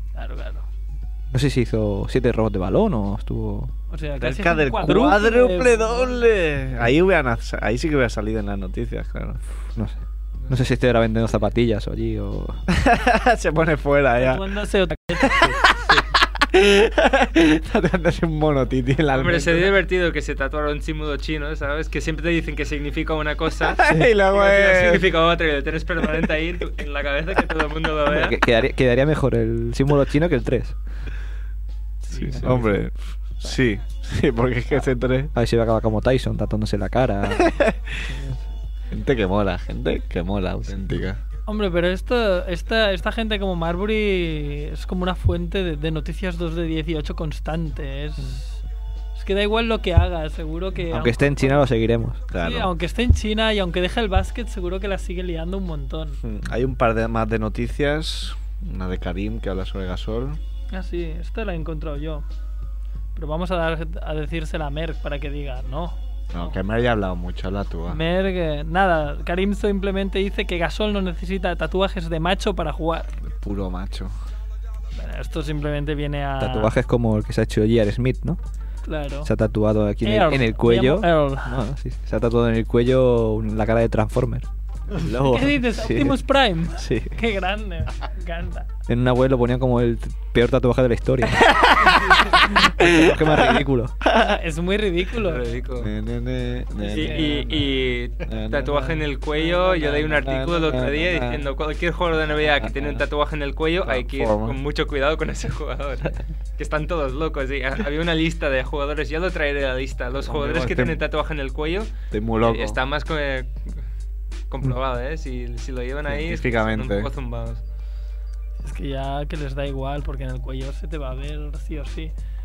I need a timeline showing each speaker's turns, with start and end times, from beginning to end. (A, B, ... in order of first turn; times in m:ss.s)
0:00.2-0:00.7 A
0:01.3-0:03.7 B
0:03.9-0:06.2 A
0:04.2-0:09.4 C
0:09.8-0:12.6 B
0:12.7-0:14.5 C
0:14.2-0:15.5 A
0:15.2-0:16.0 C
0:16.5-0:19.8 C
0:19.1-0:28.4 D
0:23.8-0:25.1 C
0:28.1-0:30.8 B
0:32.0-0:32.6 A
0:32.2-0:32.7 B
0:32.3-0:35.3 C
0:35.3-0:37.6 B
0:37.4-0:37.7 C
0:38.1-0:38.4 B
0:38.9-0:41.2 C
0:41.5-0:48.6 A
0:49.2-0:51.8 A
0:50.9-0:52.3 B
0:52.3-0:52.7 C
0:52.3-0:56.2 A
0:56.2-1:00.4 C
1:00.7-1:02.2 A
1:03.2-1:06.6 A
1:06.3-1:08.0 C
1:07.9-1:13.1 A
1:13.3-1:14.1 C
1:14.9-1:16.8 A
1:16.4-1:18.4 B
1:18.8-1:19.3 A
1:19.2-1:26.2 B
1:20.0-1:21.6 A
1:25.2-1:28.7 A
1:26.8-1:27.2 B
1:28.9-1:31.7 B
1:31.6-1:32.0 C
1:32.3-1:34.0 B
1:34.1-1:35.6 A
1:35.2-1:35.9 D
1:35.8-1:38.9 C
1:36.8-1:37.5 A
1:36.8-1:53.5 D
1:38.8-1:40.1 A
1:39.9-1:41.5 C
1:42.5-1:43.0 C
1:43.8-1:44.6 C
1:50.2-1:51.0 C
1:52.1-1:52.8 C
1:54.5-1:57.6 D
1:56.1-1:57.1 C
1:58.6-2:02.1 A